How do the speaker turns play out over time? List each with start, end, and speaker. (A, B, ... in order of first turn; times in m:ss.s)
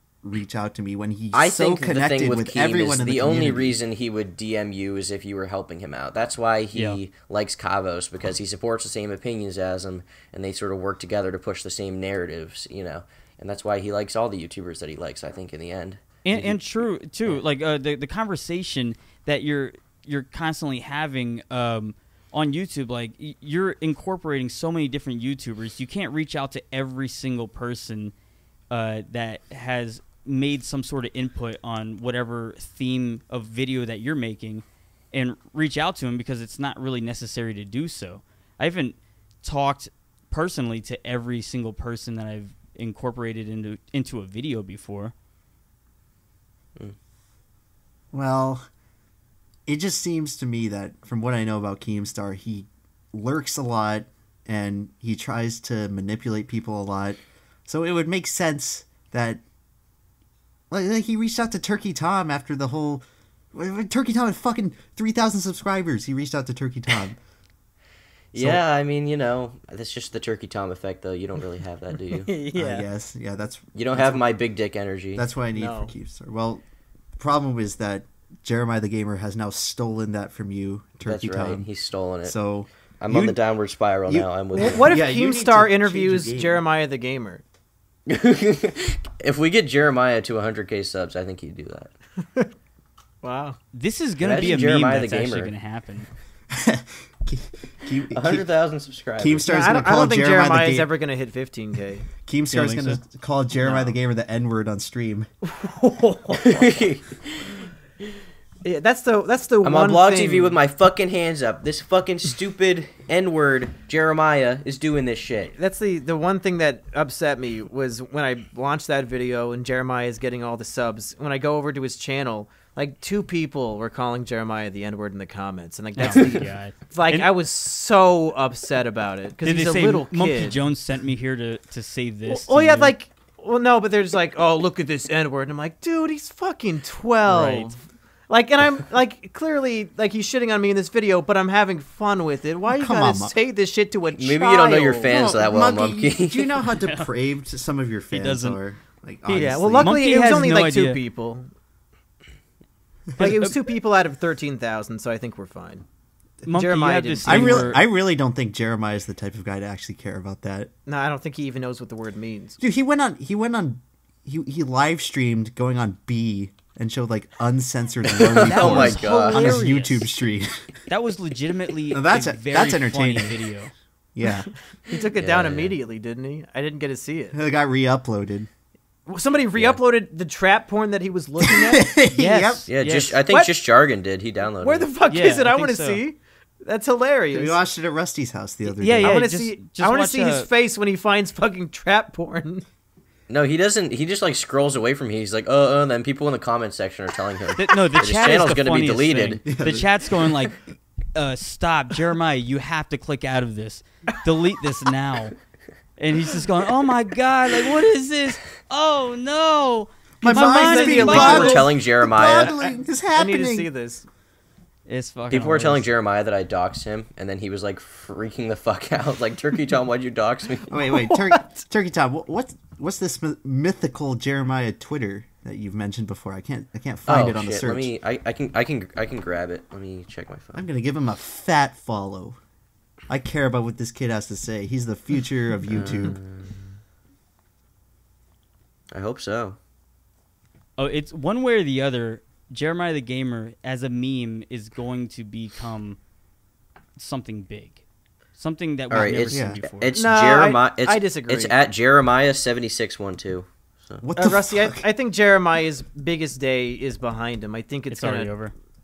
0:00.2-0:03.8 A
0:01.3-0:16.6 B
0:06.7-0:07.0 C
0:16.2-0:28.1 C
0:28.7-0:45.1 C
0:48.1-0:48.7 A
0:49.7-0:59.4 A
1:00.7-1:03.0 A
1:03.5-1:07.2 A
1:08.3-1:12.3 B
1:08.4-1:08.6 A
1:12.2-1:12.9 D
1:12.6-1:14.3 A
1:13.8-1:15.2 B
1:15.2-1:16.6 A
1:15.6-1:15.9 D
1:17.2-1:21.7 A
1:21.0-1:22.4 B
1:22.2-1:23.4 A
1:23.0-1:25.0 B
1:24.1-1:26.6 A
1:24.6-1:27.4 D
1:28.1-1:31.9 B
1:33.2-1:33.6 D
1:33.7-1:36.1 C
1:34.2-1:35.5 B
1:36.5-1:38.5 A
1:38.1-1:39.5 B
1:39.2-1:40.9 A
1:39.5-1:42.1 D
1:42.2-1:45.3 A
1:42.5-1:43.0 C
1:43.6-1:43.9 D
1:45.4-1:46.6 D
1:46.3-1:47.5 B
1:48.6-1:50.6 D
1:49.6-1:55.5 B
1:55.6-2:10.6 D
2:06.0-2:07.3 C
2:06.1-2:06.4 B
2:09.4-2:12.9 C
2:12.3-2:25.1 D
2:17.3-2:17.7 C
2:22.7-2:23.3 A
2:24.2-2:26.6 B
2:25.1-2:30.0 A
2:26.8-2:27.1 C
2:28.1-2:28.6 C
2:29.3-2:31.0 C
2:29.3-2:31.5 D
2:33.2-2:33.5 C
2:33.2-2:35.8 D
2:36.4-2:37.8 C
2:36.5-2:37.8 D
2:37.2-2:40.7 A
2:40.9-2:42.6 D
2:42.6-2:50.7 A
2:48.1-2:49.6 B
2:48.4-2:50.1 C
2:50.9-2:53.7 C
2:51.9-2:53.4 A
2:54.2-2:54.5 A
2:54.9-2:57.4 D
2:55.2-2:55.8 B
2:57.3-2:58.5 A
2:59.1-3:02.0 D
3:01.4-3:02.7 A
3:02.1-3:03.2 C
3:02.7-3:04.9 B
3:03.3-3:03.6 D
3:04.6-3:07.6 D
3:05.1-3:06.0 C
3:07.3-3:09.2 A
3:08.8-3:10.5 C
3:09.0-3:12.6 D
3:13.3-3:19.4 B
3:17.6-3:20.6 C
3:19.5-3:19.9 A
3:21.1-3:25.4 C
3:26.0-3:31.6 C
3:30.2-3:33.7 A
3:30.2-3:34.1 D
3:31.1-3:32.6 B
3:34.9-3:35.8 C
3:35.3-3:40.8 B
3:40.7-3:47.9 A
3:47.1-3:50.7 B
3:50.5-3:52.4 A
3:53.1-3:56.2 A
3:55.7-3:56.7 B
3:58.9-3:59.6 B
4:00.8-4:06.0 C
4:07.0-4:07.8 C
4:08.4-4:09.9 C
4:08.9-4:14.0 B
4:09.3-4:09.6 A
4:09.9-4:11.6 D
4:14.0-4:14.8 A
4:14.2-4:18.4 D
4:17.9-4:18.5 C